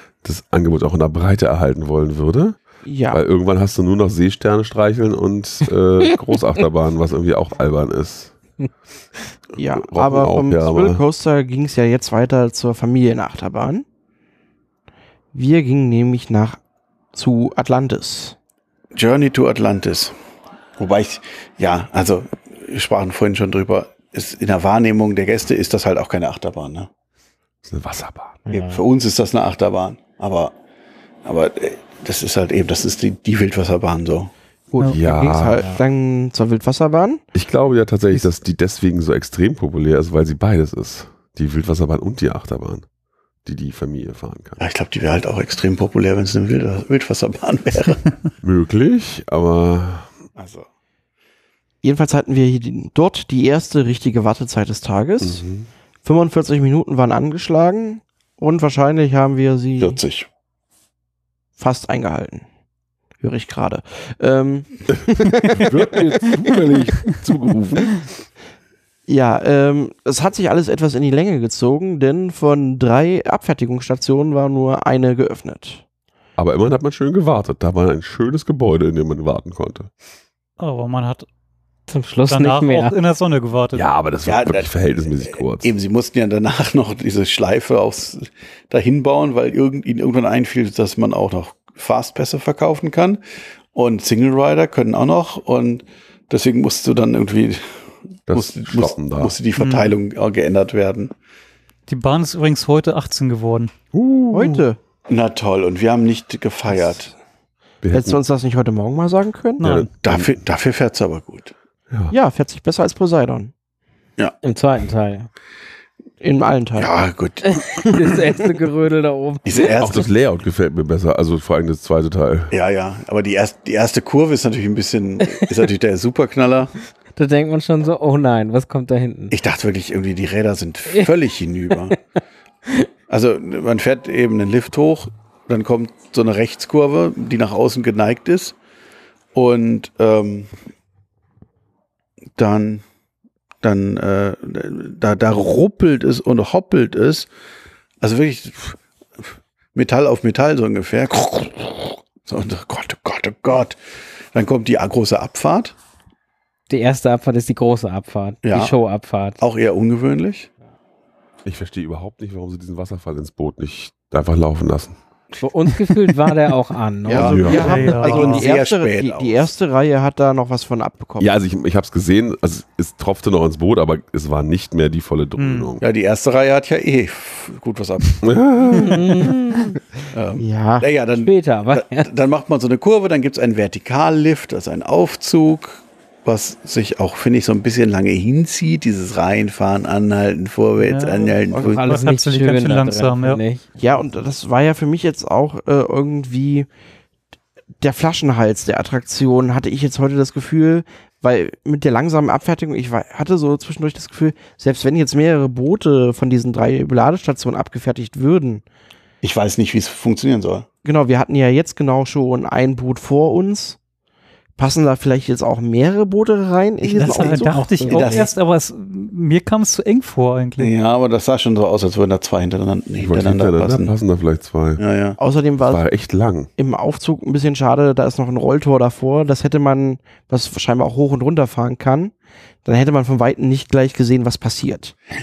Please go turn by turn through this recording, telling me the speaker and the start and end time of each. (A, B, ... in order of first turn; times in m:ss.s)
0:00.2-0:02.6 A
0:02.8-0:03.2 B
0:03.1-0:08.3 A
0:09.6-0:13.8 B
0:09.8-0:11.0 A
0:15.3-0:16.6 B
0:17.1-0:18.4 B
0:18.9-0:20.2 C
0:20.8-0:26.9 C
0:27.6-0:28.4 A
0:28.5-0:28.8 D
0:28.5-0:30.6 C
0:31.2-0:34.3 C
0:34.7-0:37.2 B
0:34.9-0:35.6 A
0:37.3-0:42.8 A
0:43.4-0:44.6 A
0:44.6-0:48.1 C
0:48.4-0:50.1 A
0:50.4-0:50.7 C
0:51.8-0:55.4 B
0:55.2-0:55.7 A
0:56.0-1:00.0 B
0:59.8-1:00.3 C
1:01.6-1:02.4 B
1:03.2-1:06.4 B
1:05.5-1:08.1 A
1:09.1-1:15.8 B
1:16.4-1:19.9 A
1:20.6-1:21.3 E
1:21.9-1:23.0 D
1:22.3-1:23.9 E
1:23.7-1:25.7 A
1:24.2-1:33.2 C
1:33.7-1:37.6 C
1:38.3-1:41.1 C
1:38.3-1:39.4 A
1:39.6-1:39.9 E
1:41.9-1:43.7 E
1:43.9-1:44.6 A
1:44.3-1:44.8 B
1:45.1-1:47.1 C
1:47.8-1:48.2 A
1:47.9-1:49.7 B
1:49.6-1:49.9 E
1:49.6-1:50.4 A
1:50.0-1:51.5 C
1:52.1-1:53.5 B
1:54.4-1:55.3 D
1:56.2-1:56.9 B
1:56.8-1:58.2 C
1:57.4-1:59.8 D
1:59.4-2:00.1 C
1:59.8-2:02.5 A
2:02.5-2:06.7 C
2:07.2-2:09.4 D
2:09.3-2:12.0 C
2:13.1-2:18.6 C
2:19.3-2:20.5 C
2:22.4-2:22.8 C
2:23.6-2:27.3 C
2:28.0-2:28.8 C
2:29.7-2:33.8 C
2:34.3-2:35.8 C
2:36.7-2:39.4 D
2:38.4-2:38.8 C
2:39.4-2:40.5 C
2:41.4-2:45.0 A
2:45.4-2:47.8 D
2:47.1-2:51.3 B
2:47.1-2:49.5 C
2:47.3-2:47.8 A
2:47.4-2:48.5 E
2:51.2-2:55.8 A
2:55.4-2:55.8 E
2:55.8-2:58.3 C
2:58.2-2:59.3 A
2:58.7-2:59.7 D
3:00.1-3:11.9 C
3:00.4-3:00.9 B
3:01.1-3:02.1 D
3:10.8-3:13.4 E
3:11.5-3:13.6 D
3:13.8-3:16.7 B
3:17.8-3:28.6 B
3:29.2-3:30.7 C
3:30.8-3:33.8 B
3:34.6-3:38.2 B
3:36.8-3:38.2 D
3:37.0-3:40.7 E
3:37.9-3:38.3 C
3:40.6-3:43.9 C
3:43.0-3:44.8 A
3:44.8-3:45.2 C
3:45.2-3:45.8 B
3:45.7-3:46.5 A
3:46.6-3:52.1 B
3:52.6-3:55.0 B